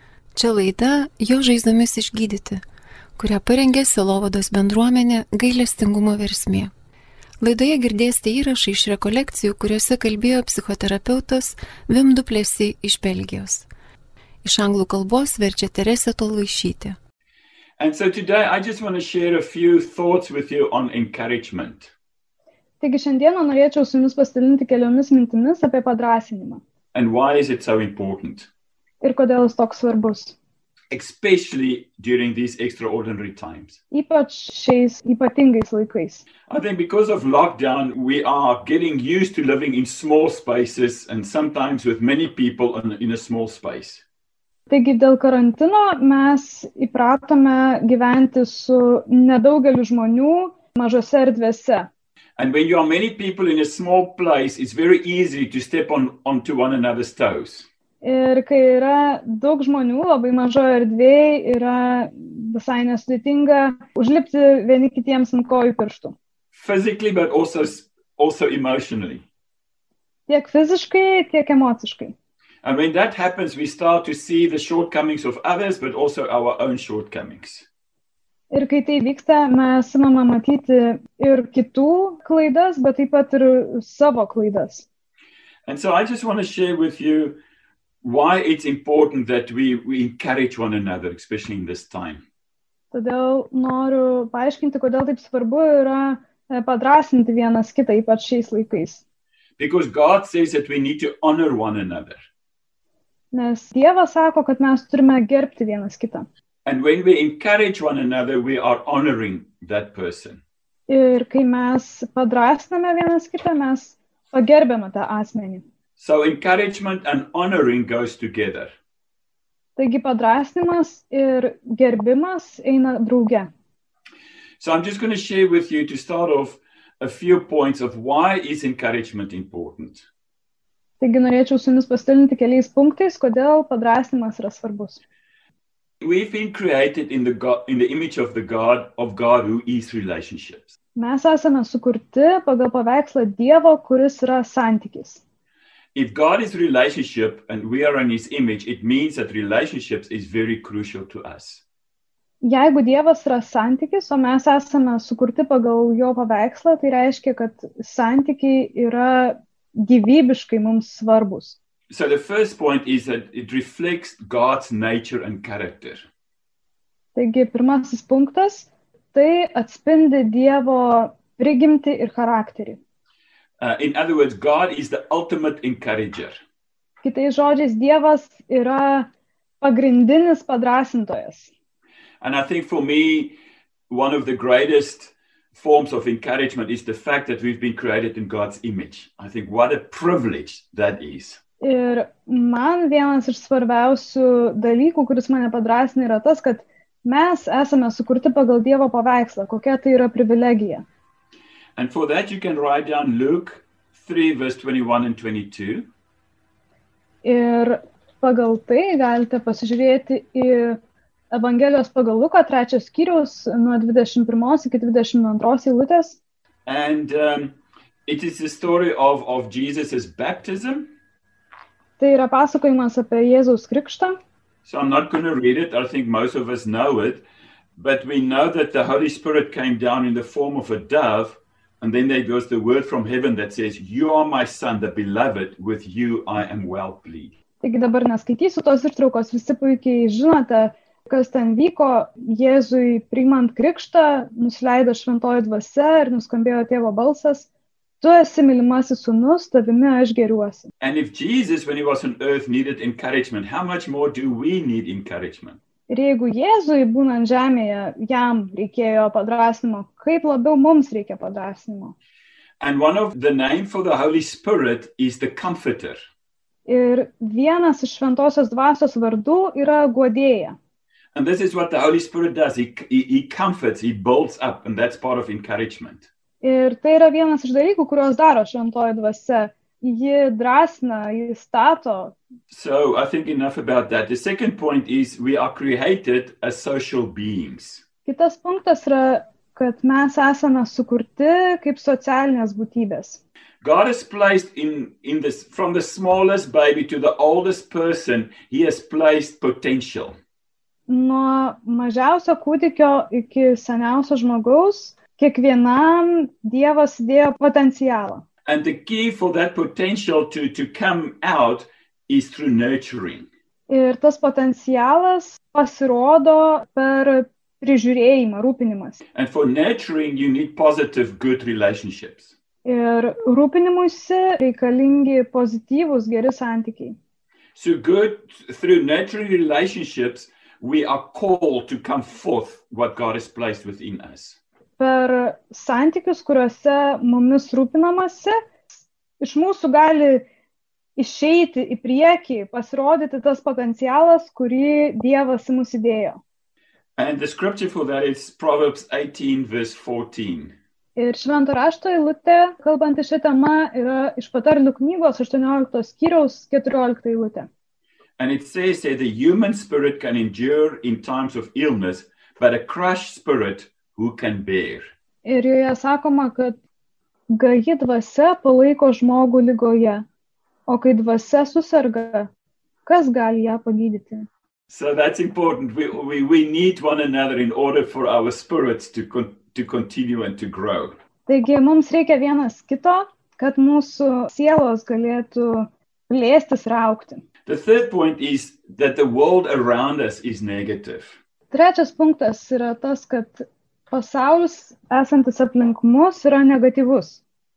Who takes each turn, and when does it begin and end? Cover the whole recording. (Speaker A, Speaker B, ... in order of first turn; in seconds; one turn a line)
Speaker A: 0.3-2.6
Speaker A: 3.2-6.7
Speaker A: 7.4-13.7
Speaker A: 14.4-16.9
Speaker B: 17.8-21.9
Speaker C: 22.8-26.6
Speaker B: 26.9-28.5
Speaker C: 29.0-30.4
Speaker B: 30.9-33.8
Speaker C: 33.9-36.2
Speaker B: 36.5-44.0
Speaker C: 44.7-51.9
Speaker B: 52.4-57.7
Speaker C: 58.0-66.2
Speaker B: 66.5-69.2
Speaker C: 70.3-72.1
Speaker B: 72.6-77.7
Speaker C: 78.5-84.8
Speaker B: 85.7-87.4
Speaker B: 88.0-92.2
Speaker C: 92.9-99.0
Speaker B: 99.6-102.3
Speaker C: 103.3-106.3
Speaker B: 106.6-110.4
Speaker C: 110.9-115.6
Speaker B: 116.0-118.7
Speaker C: 119.8-123.5
Speaker B: 124.6-130.0
Speaker C: 131.0-135.0
Speaker B: 136.0-140.7
Speaker C: 140.9-145.2
Speaker B: 145.9-151.6
Speaker C: 152.4-161.6
Speaker B: 161.9-166.1
Speaker C: 167.1-172.8
Speaker B: 173.6-176.4
Speaker C: 177.0-179.1
Speaker C: 179.6-181.5
Speaker B: 182.2-183.3
Speaker B: 183.9-191.4
Speaker C: 191.6-200.8
Speaker B: 201.8-205.9
Speaker C: 207.2-210.8
Speaker C: 211.3-216.2
Speaker B: 216.7-220.9
Speaker C: 222.0-224.2
Speaker B: 224.6-227.2
Speaker B: 227.8-237.3
Speaker C: 237.6-247.5
Speaker C: 248.0-250.7
Speaker B: 250.8-255.6
Speaker C: 255.9-261.9
Speaker B: 262.6-266.0
Speaker C: 266.6-270.6
Speaker B: 271.1-276.1
Speaker C: 276.4-282.1
Speaker B: 282.5-287.8
Speaker C: 288.1-293.2
Speaker B: 293.6-300.1
Speaker C: 300.9-308.2
Speaker B: 308.4-313.3
Speaker C: 313.7-319.0
Speaker B: 319.1-322.3
Speaker C: 322.6-327.0
Speaker B: 327.5-334.4
Speaker C: 334.8-340.2
Speaker C: 341.0-346.2
Speaker B: 347.0-350.5
Speaker C: 351.0-357.5
Speaker B: 358.2-364.9
Speaker C: 365.2-366.6
Speaker C: 367.3-370.0
Speaker C: 370.7-372.3
Speaker C: 372.9-374.3
Speaker B: 374.7-380.9
Speaker C: 381.3-387.2
Speaker B: 387.4-391.2
Speaker C: 391.5-397.2